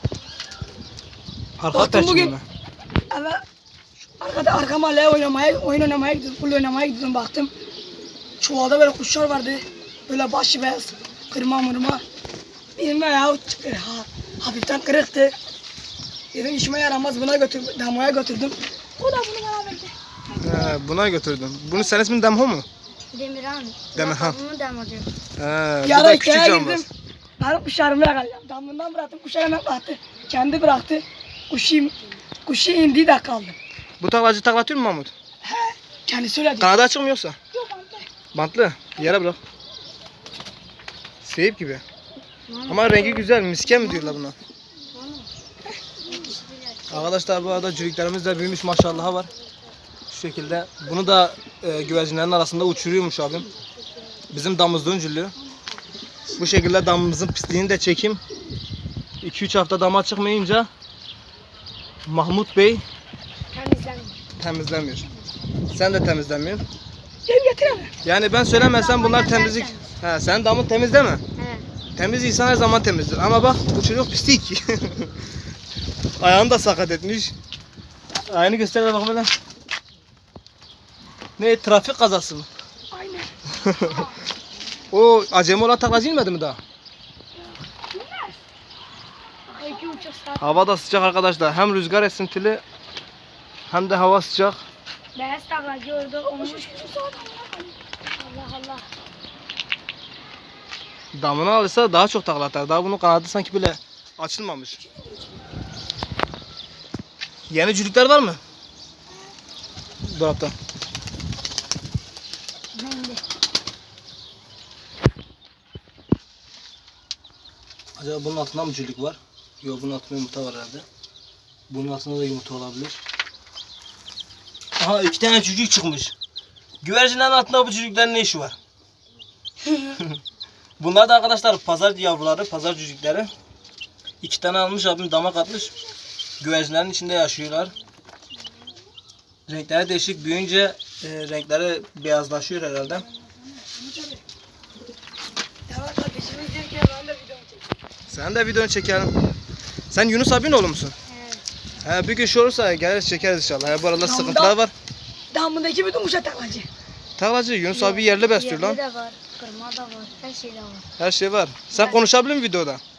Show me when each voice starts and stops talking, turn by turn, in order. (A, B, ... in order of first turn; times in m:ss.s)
0:01.6-0:02.4 A
0:01.7-0:02.4 B
0:03.1-0:03.4 B
0:04.2-0:07.5 B
0:08.4-0:12.0 B
0:12.8-0:15.3 B
0:16.3-0:20.8 B
0:20.4-0:22.7 A
0:23.1-0:25.1 C
0:24.0-0:24.4 A
0:25.4-0:26.9 A
0:25.8-0:26.9 B
0:27.4-0:33.6 B
0:34.0-0:35.1 A
0:35.4-0:36.7 B
0:36.6-0:37.4 A
0:37.5-0:38.1 B
0:38.3-0:39.4 A
0:41.2-0:41.8 A
0:42.5-0:43.2 C
0:42.7-0:44.4 A
0:44.9-0:45.3 C
0:46.0-0:47.1 C
0:46.9-0:49.3 A
0:50.1-0:53.5 A
0:54.3-0:55.3 A
0:56.4-0:58.2 A
0:59.2-1:00.7 A
1:02.1-1:02.8 A
1:03.5-1:04.2 C
1:04.4-1:05.1 A
1:05.7-1:06.6 A
1:07.3-1:07.9 B
1:08.0-1:11.2 A
1:08.5-1:09.9 C
1:11.4-1:11.7 C
1:12.0-1:15.2 A
1:16.2-1:17.4 A
1:18.2-1:19.3 A
1:21.4-1:22.5 A
1:22.9-1:24.1 B
1:23.6-1:24.0 A
1:24.9-1:26.6 A
1:27.4-1:28.4 B
1:29.5-1:30.5 B
1:29.6-1:30.2 C
1:30.4-1:32.6 A
1:33.7-1:34.6 A
1:35.2-1:36.7 C
1:36.2-1:37.8 B
1:38.2-1:38.9 C
1:41.1-1:44.8 A
1:44.8-1:45.4 B
1:47.5-1:48.4 A
1:50.1-1:50.6 A
1:52.8-1:53.2 C
1:58.0-2:00.9 A
2:01.7-2:03.0 A
2:04.8-2:06.2 A
2:06.8-2:08.6 A
2:09.9-2:10.2 A
2:10.8-2:13.3 A
2:14.2-2:15.7 A
2:16.4-2:17.7 A
2:19.5-2:23.0 A
2:23.6-2:24.2 B
2:25.7-2:27.8 B
2:28.1-2:29.1 A
2:29.9-2:30.9 A
2:31.1-2:31.4 C
2:31.8-2:34.7 A
2:34.0-2:34.6 B
2:35.3-2:36.7 B
2:37.2-2:38.8 A
2:37.7-2:40.9 C
2:41.0-2:42.8 A